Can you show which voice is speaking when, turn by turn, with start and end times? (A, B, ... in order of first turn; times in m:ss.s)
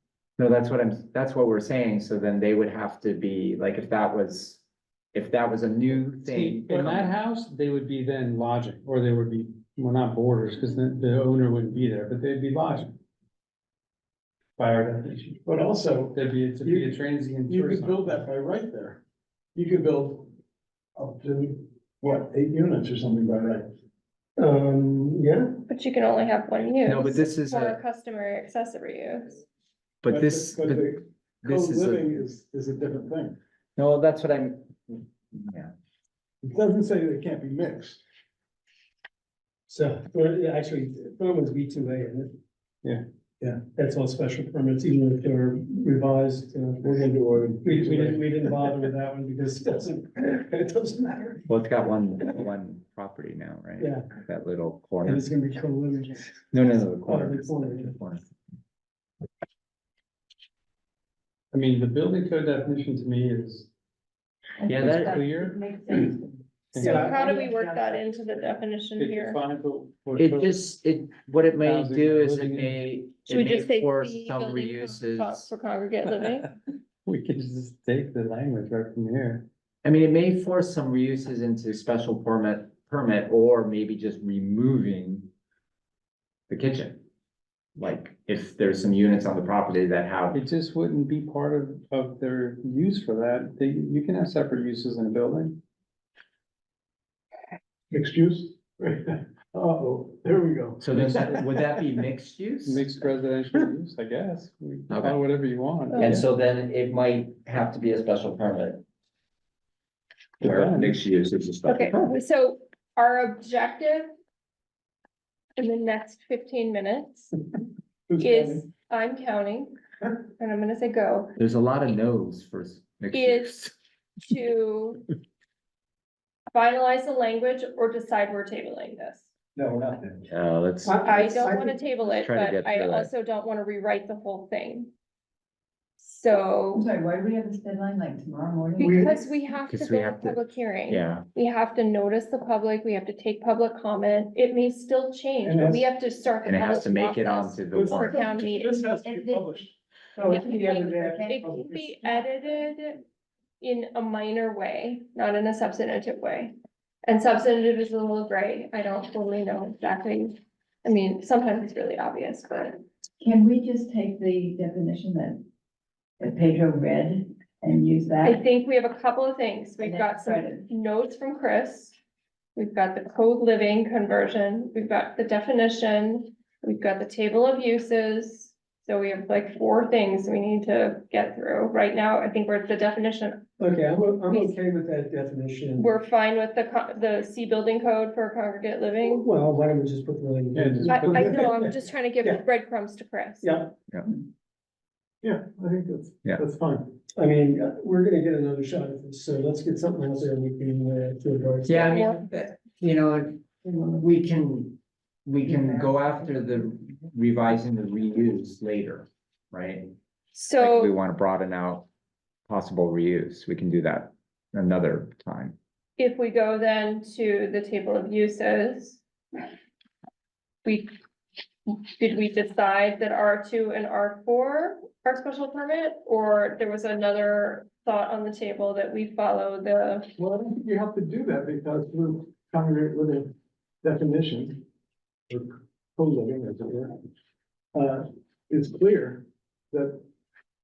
0:00.4-0:04.6 A
0:05.1-0:07.2 A
0:06.2-0:12.9 B
0:14.6-0:15.4 B
0:15.4-0:19.0 C
0:16.1-0:18.2 B
0:19.6-0:20.3 C
0:21.0-0:23.7 C
0:24.4-0:25.6 D
0:25.7-0:29.4 E
0:26.9-0:27.8 A
0:30.0-0:32.1 A
0:30.1-0:33.4 C
0:33.8-0:35.7 A
0:36.4-0:38.0 C
0:39.7-0:42.3 D
0:43.8-0:47.1 D
0:46.8-0:48.8 C
0:47.6-0:51.5 D
0:51.5-0:55.3 A
0:53.8-0:54.0 D
0:55.0-0:56.4 D
0:56.5-0:58.2 A
0:57.0-0:58.0 D
1:01.5-1:03.7 B
1:04.6-1:06.4 F
1:04.7-1:05.2 A
1:04.7-1:05.6 B
1:06.7-1:07.1 B
1:06.8-1:07.2 D
1:06.8-1:09.4 E
1:07.2-1:07.9 F
1:09.0-1:10.5 B
1:10.2-1:15.5 A
1:11.6-1:12.8 B
1:13.3-1:16.5 E
1:17.0-1:19.5 B
1:19.8-1:25.3 A
1:26.5-1:27.0 A
1:27.8-1:30.4 A
1:30.3-1:35.6 B
1:37.9-1:41.6 C
1:40.8-1:42.9 A
1:42.6-1:46.3 B
1:44.9-1:45.2 A
1:45.9-1:46.2 E
1:46.0-1:48.8 A
1:50.4-1:51.0 B
1:50.4-1:52.2 A
1:51.7-1:54.1 E
1:55.6-1:57.3 E
1:58.1-1:58.6 C
1:58.2-2:01.4 E
2:01.4-2:03.7 A
2:03.1-2:03.6 E
2:04.2-2:05.0 E
2:06.5-2:09.3 E
2:09.6-2:10.2 C
2:10.3-2:11.2 A
2:10.8-2:11.7 D
2:11.0-2:14.9 E
2:12.0-2:13.1 A
2:16.0-2:16.9 E
2:16.8-2:19.1 F
2:18.8-2:28.9 E
2:18.8-2:19.2 C
2:19.7-2:21.3 A
2:25.4-2:25.9 C
2:26.4-2:28.5 A
2:27.7-2:29.7 C
2:29.0-2:29.5 F
2:30.2-2:32.2 F
2:30.2-2:33.0 E
2:30.3-2:31.8 C
2:33.6-2:42.8 E
2:43.2-2:45.5 F
2:46.2-2:48.4 F
2:48.2-2:52.0 E
2:49.8-2:50.6 F
2:52.6-3:03.6 E
3:03.6-3:05.9 D
3:04.3-3:04.6 E
3:05.8-3:09.3 E
3:09.0-3:12.4 D
3:10.5-3:11.4 B
3:10.8-3:11.5 C
3:10.9-3:13.5 E
3:13.4-3:13.8 D
3:15.2-3:17.0 C
3:17.2-3:22.0 D
3:21.7-3:29.9 A
3:21.9-3:22.3 E
3:30.3-3:30.9 E
3:30.6-3:31.9 A
3:32.5-3:35.6 A
3:36.0-3:39.0 E
3:40.6-3:40.9 E
3:41.7-3:50.1 E
3:50.2-3:54.6 C
3:55.3-3:57.0 C
3:57.7-4:00.0 C